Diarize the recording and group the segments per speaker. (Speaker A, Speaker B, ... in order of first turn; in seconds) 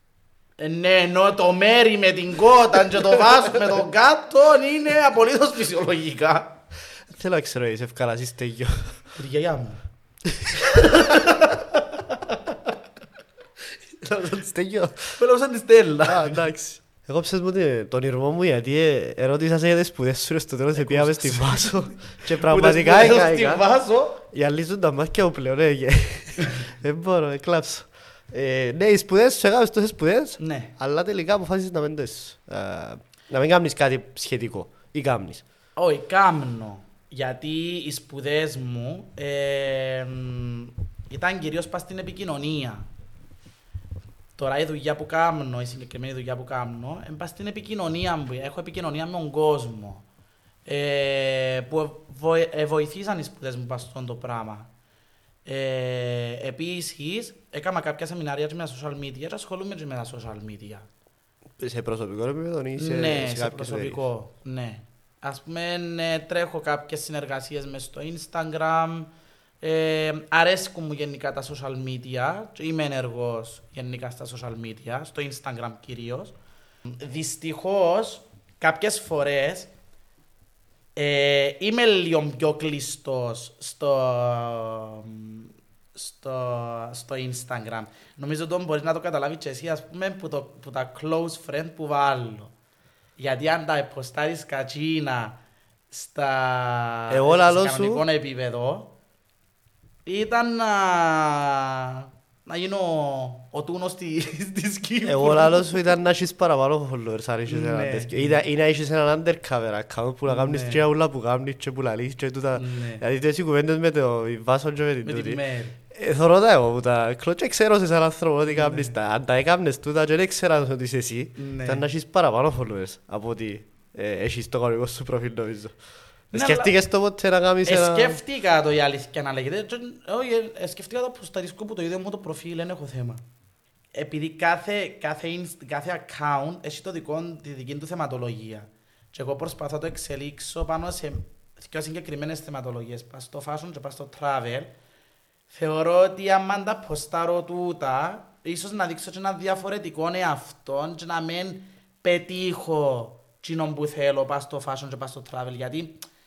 Speaker A: 0.6-6.6, 9.2-9.8, 10.7-12.1, 15.2-16.4, 20.8-24.2, 30.4-30.7, 35.8-42.9, 44.4-50.0, 50.6-54.7, 55.4-60.9, 62.8-76.3, 76.9-79.7, 81.0-92.5, 93.2-95.4, 95.9-98.9, 100.0-105.8, 107.5-108.4, 110.3-110.8, 112.5-113.0, 115.0-115.8, 118.5-118.9, 121.3-121.9, 126.3-126.7, 127.6-133.2, 133.9-144.7, 145.5-156.0
Speaker B: 7.1-9.0, 10.3-11.3, 13.9-15.2, 16.0-23.6, 24.3-35.4, 61.6-64.0, 97.1-98.0, 105.0-125.7, 126.3-128.2